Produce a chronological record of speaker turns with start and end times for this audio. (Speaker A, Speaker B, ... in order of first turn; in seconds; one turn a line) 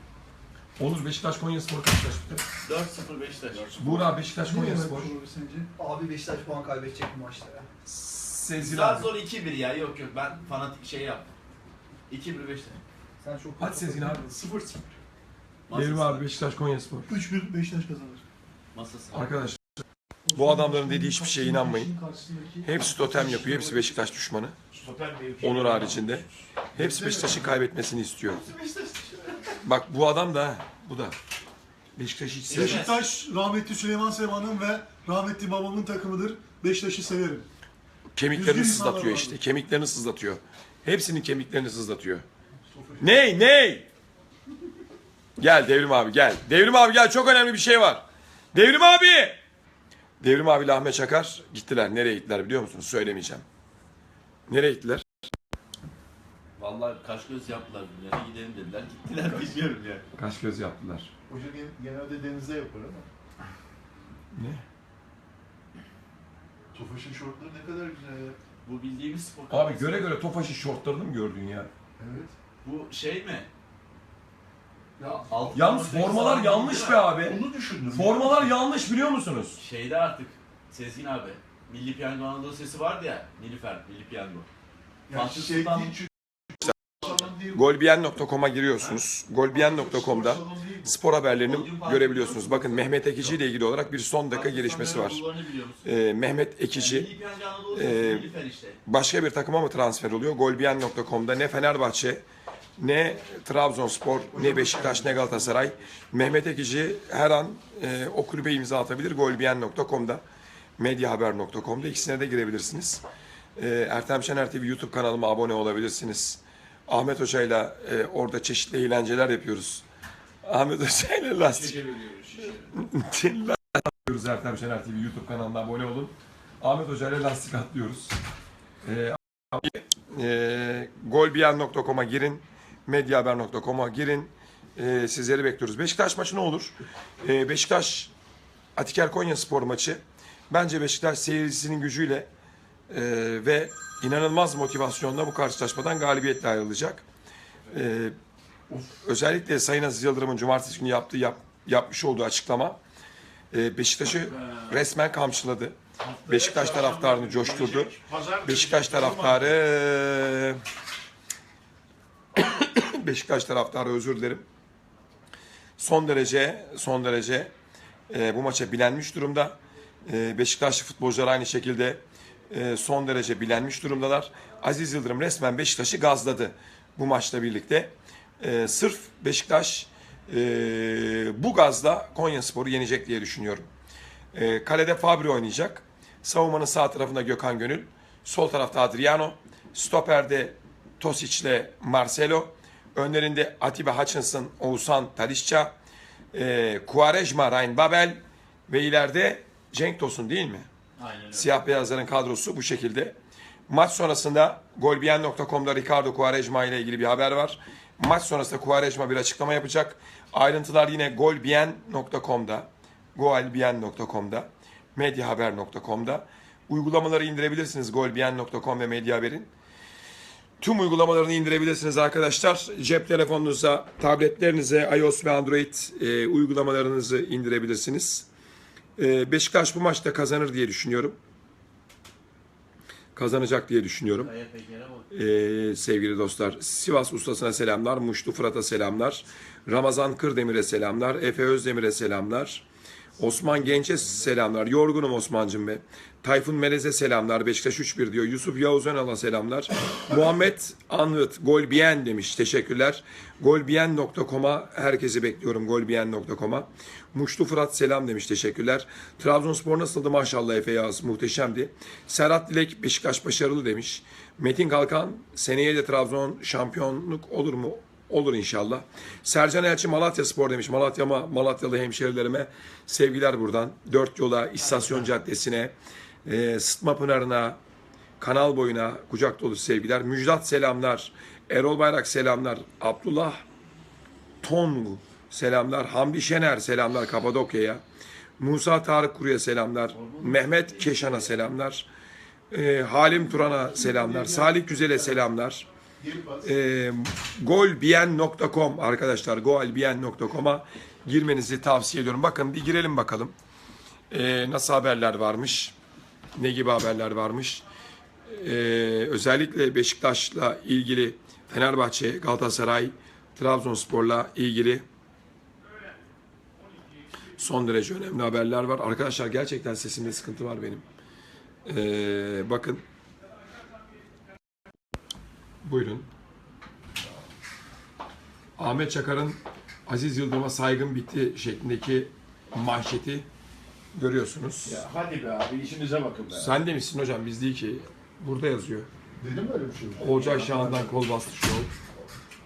Speaker A: 0.8-2.4
Speaker B: 2.6-3.7
Speaker C: 3.5-4.3
Speaker A: 3.8-5.1
Speaker D: 4.4-5.7
Speaker E: 5.8-7.7
Speaker A: 7.9-9.1
Speaker B: 8.6-11.3
Speaker B: 12.1-12.8
Speaker E: 13.2-14.2
Speaker A: 13.6-14.2
Speaker F: 14.3-14.9
Speaker B: 15.7-16.3
Speaker A: 15.7-17.1
Speaker D: 17.1-18.2
Speaker B: 18.7-19.3
Speaker A: 19.1-19.6
Speaker D: 20.2-23.9
Speaker A: 20.4-21.9
Speaker A: 22.6-24.6
Speaker C: 24.7-26.4
Speaker A: 25.4-28.4
Speaker D: 26.8-27.4
Speaker B: 28.3-29.5
Speaker A: 29.6-31.1
Speaker A: 31.9-32.9
Speaker B: 32.5-33.0
Speaker D: 32.5-37.5
Speaker A: 38.1-42.2
Speaker D: 38.3-39.4
Speaker F: 42.7-43.1
Speaker A: 43.0-43.9
Speaker A: 45.4-49.4
Speaker A: 50.2-53.4
Speaker A: 54.5-55.0
Speaker B: 56.6-60.0
Speaker A: 60.1-61.1
Speaker F: 61.3-63.1
Speaker A: 64.3-64.6
Speaker F: 66.7-68.4
Speaker B: 68.6-70.1
Speaker A: 69.5-71.7
Speaker F: 72.0-72.3
Speaker B: 72.6-73.5
Speaker F: 75.0-75.8
Speaker B: 75.0-77.0
Speaker A: 75.5-79.6
Speaker F: 77.2-78.5
Speaker B: 79.6-84.5
Speaker F: 85.1-86.1
Speaker B: 85.1-86.0
Speaker F: 87.0-87.6
Speaker A: 87.5-95.2
Speaker F: 89.5-90.9
Speaker B: 91.5-93.4
Speaker B: 94.3-95.9
Speaker A: 95.8-97.1
Speaker B: 96.7-98.8
Speaker A: 97.7-98.3
Speaker A: 98.9-102.2
Speaker A: 102.8-110.2
Speaker F: 104.3-105.7
Speaker A: 110.8-113.0
Speaker A: 113.5-119.8
Speaker A: 120.4-121.8
Speaker C: 121.4-122.8
Speaker A: 122.8-128.2
Speaker A: 128.8-138.1
Speaker A: 138.7-142.3
Speaker A: 142.9-147.0
Speaker A: 147.7-148.2
Speaker A: 148.7-152.8
Speaker A: 153.5-160.6
Speaker C: 156.2-159.6
Speaker A: 162.3-164.4
Speaker A: 165.8-167.5
Speaker A: 168.1-183.7
Speaker A: 184.3-195.7
Speaker A: 196.3-200.7
Speaker B: 201.0-201.5
Speaker A: 201.3-203.2
Speaker A: 203.7-219.5
Speaker A: 220.6-228.3
Speaker A: 229.0-231.2
Speaker A: 233.1-234.3
Speaker B: 234.1-235.1
Speaker A: 235.1-242.6
Speaker A: 243.2-275.7
Speaker A: 276.2-277.6
Speaker A: 278.2-283.4
Speaker A: 284.4-287.8
Speaker A: 288.4-291.9
Speaker B: 289.9-291.4
Speaker A: 292.5-295.7
Speaker F: 293.7-295.2
Speaker F: 296.0-296.5
Speaker A: 296.4-303.4
Speaker A: 304.1-305.7
Speaker A: 306.3-307.6
Speaker A: 308.3-314.9
Speaker A: 317.4-320.9
Speaker A: 321.6-322.8
Speaker A: 325.6-326.1
Speaker A: 328.6-333.3
Speaker A: 333.9-334.8
Speaker C: 334.6-336.6
Speaker A: 336.4-338.9
Speaker F: 339.2-340.9
Speaker A: 340.0-341.7